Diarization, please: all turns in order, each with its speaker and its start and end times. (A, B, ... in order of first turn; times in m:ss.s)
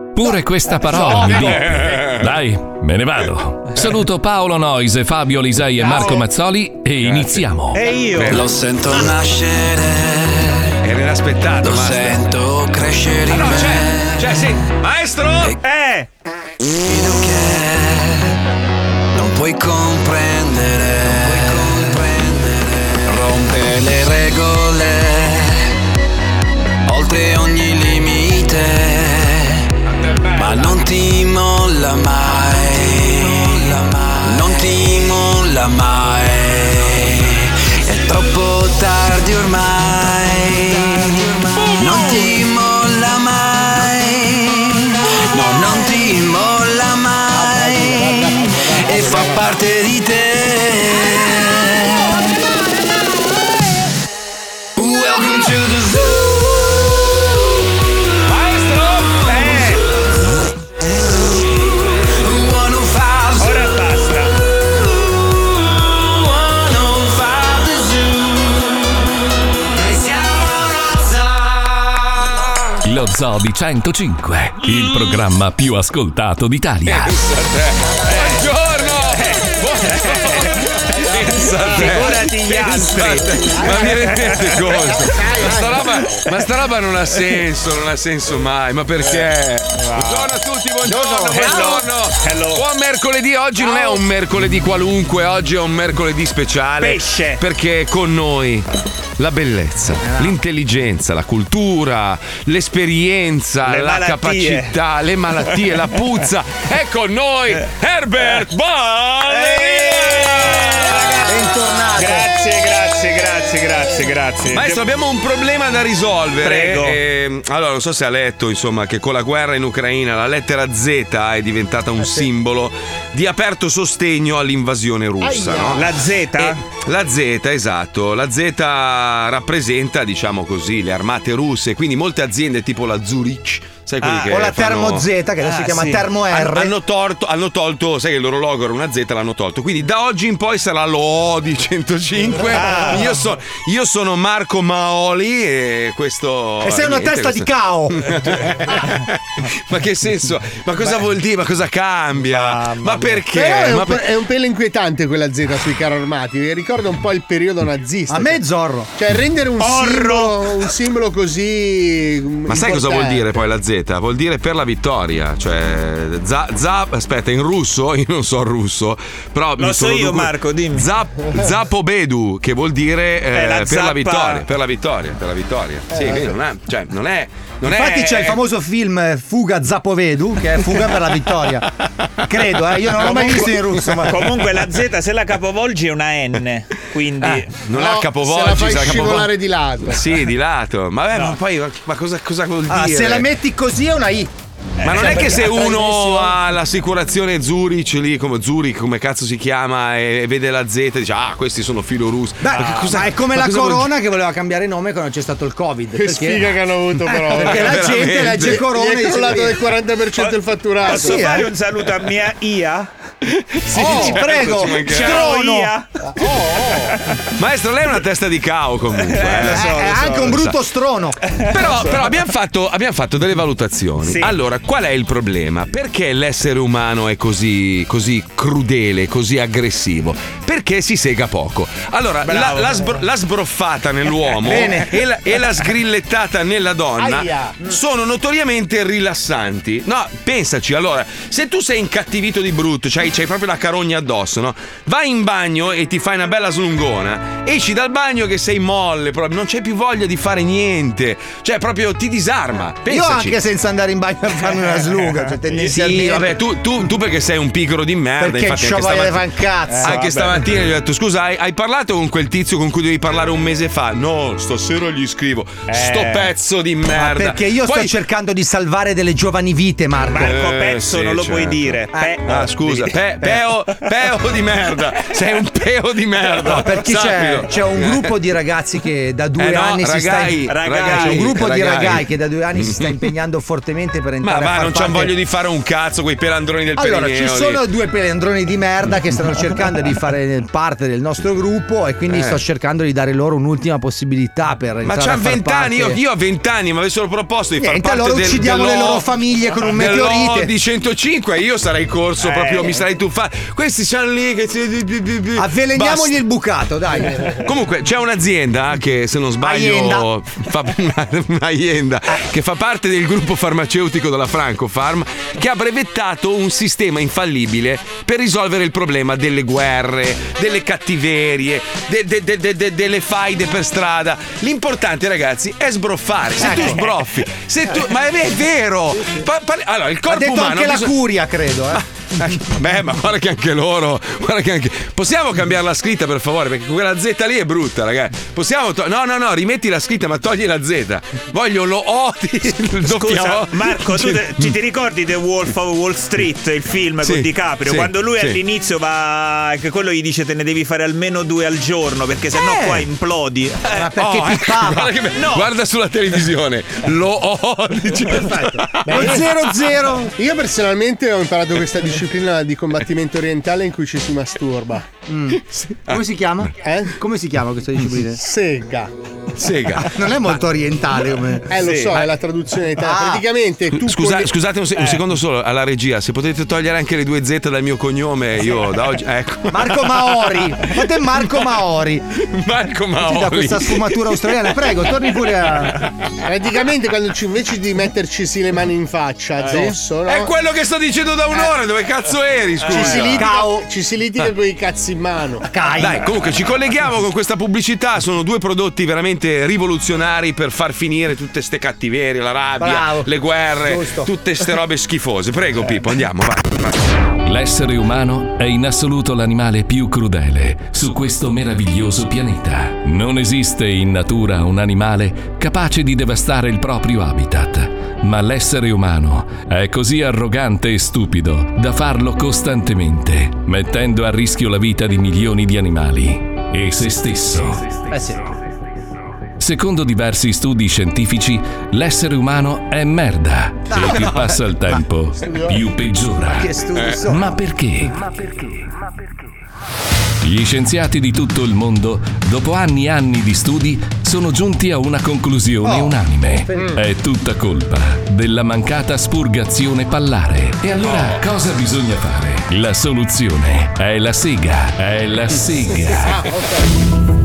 0:00.2-0:07.8 A
0:01.0-0:02.2 B
0:07.0-0:07.4 B
0:07.7-0:08.4 C
0:08.1-0:08.5 B
0:08.3-0:10.7 D
0:10.8-0:12.3 B
0:11.6-0:14.5 D
0:13.3-0:15.6 B
0:15.6-0:16.1 C
0:16.9-0:18.2 D
0:19.2-0:25.6 D
0:26.9-0:29.6 D
0:30.3-0:52.1 D
0:47.7-0:49.2 E
0:54.8-0:57.2 D
0:58.3-0:59.8 C
1:01.3-1:03.6 D
1:03.4-1:04.3 C
1:05.3-1:08.9 D
1:09.8-1:12.0 D
1:12.8-1:17.1 A
1:16.9-1:38.6 B
1:19.1-1:24.5 C
1:24.7-1:25.9 E
1:29.0-1:30.3 C
1:30.8-1:31.8 F
1:31.3-1:32.6 C
1:36.8-1:37.4 C
1:39.2-1:51.3 B
1:40.0-1:40.3 F
1:43.6-1:44.8 C
1:49.3-1:54.9 C
1:51.3-1:52.3 F
1:54.5-2:15.1 B
1:56.4-1:57.0 C
2:05.2-2:05.9 E
2:05.7-2:06.6 C
2:14.0-2:14.4 C
2:14.3-2:16.7 F
2:15.4-2:16.1 C
2:16.3-2:34.1 B
2:22.5-2:23.1 C
2:26.6-2:28.0 F
2:32.4-2:32.9 F
2:33.3-2:38.4 E
2:38.1-2:38.9 F
2:39.0-2:43.3 E
2:39.6-2:40.6 C
2:42.5-2:58.4 B
2:49.6-2:50.9 C
2:53.3-2:54.5 C
2:56.0-2:56.2 E
2:57.6-3:01.6 F
3:02.3-3:04.2 F
3:03.0-3:04.1 B
3:04.0-3:07.6 C
3:07.2-3:09.3 B
3:07.7-3:10.1 E
3:09.8-3:13.3 B
3:12.7-3:14.3 F
3:14.8-3:15.8 C
3:14.8-3:23.9 B
3:15.0-3:16.4 F
3:22.4-3:26.5 F
3:22.5-3:23.0 C
3:26.0-3:31.3 E
3:27.2-3:29.6 F
3:27.4-3:28.7 B
3:30.2-3:32.9 C
3:30.9-3:31.5 F
3:33.6-3:35.3 B
3:33.7-3:35.7 F
3:33.7-3:37.0 C
3:37.4-3:40.6 B
3:38.9-3:40.4 C
3:39.5-3:41.2 F
3:41.3-3:42.2 C
3:41.5-4:13.4 B
3:44.0-3:44.4 C
3:52.2-3:53.0 C
3:54.4-3:54.9 F
3:57.0-3:57.6 F
4:12.8-4:16.4 F
4:14.8-4:15.4 C
4:15.6-4:27.9 B
4:18.2-4:20.0 F
4:19.7-4:20.5 C
4:25.7-4:26.3 C
4:26.9-4:30.4 F
4:30.1-4:32.9 C
4:30.2-4:38.2 B
4:36.4-4:45.1 F
4:39.4-4:43.1 B
4:40.4-4:41.4 C
4:44.2-4:47.6 B
4:46.8-4:56.0 F
4:52.1-4:52.4 B
4:54.8-4:59.1 B
4:57.6-5:00.5 F
4:59.7-5:06.2 B
5:02.2-5:02.9 C
5:05.4-5:07.4 F
5:07.4-5:31.0 B
5:09.4-5:10.1 F
5:26.4-5:26.9 F
5:30.1-5:31.8 F
5:31.7-5:44.6 B
5:42.8-5:53.7 C
5:47.0-5:48.4 B
5:52.3-5:52.8 F
5:53.7-5:54.9 F
5:54.0-5:59.3 B
5:58.9-5:59.2 C
5:58.9-6:00.1 F
6:00.2-6:04.9 E
6:05.1-6:08.2 F
6:06.6-6:07.0 E
6:08.2-6:08.9 E
6:09.4-6:10.1 B
6:09.7-6:11.6 F
6:11.5-6:14.3 E
6:11.6-6:12.1 C
6:12.8-6:13.3 F
6:13.7-6:20.4 B
6:14.8-6:15.0 C
6:19.5-6:22.0 F
6:22.2-6:24.3 B
6:23.0-6:25.8 F
6:26.2-6:30.3 E
6:29.4-6:29.7 C
6:30.1-6:33.3 B
6:32.6-6:33.0 C
6:32.7-6:35.5 E
6:33.0-6:33.7 F
6:35.5-6:36.0 F
6:35.8-6:46.8 B
6:42.6-6:44.1 F
6:47.2-7:07.6 A
7:07.9-7:08.2 F
7:09.4-7:16.5 A
7:13.7-7:14.1 F
7:16.3-7:17.3 F
7:17.1-7:18.0 A
7:20.2-7:36.2 A
7:25.6-7:25.9 F
7:26.5-7:26.8 E
7:36.0-7:36.7 E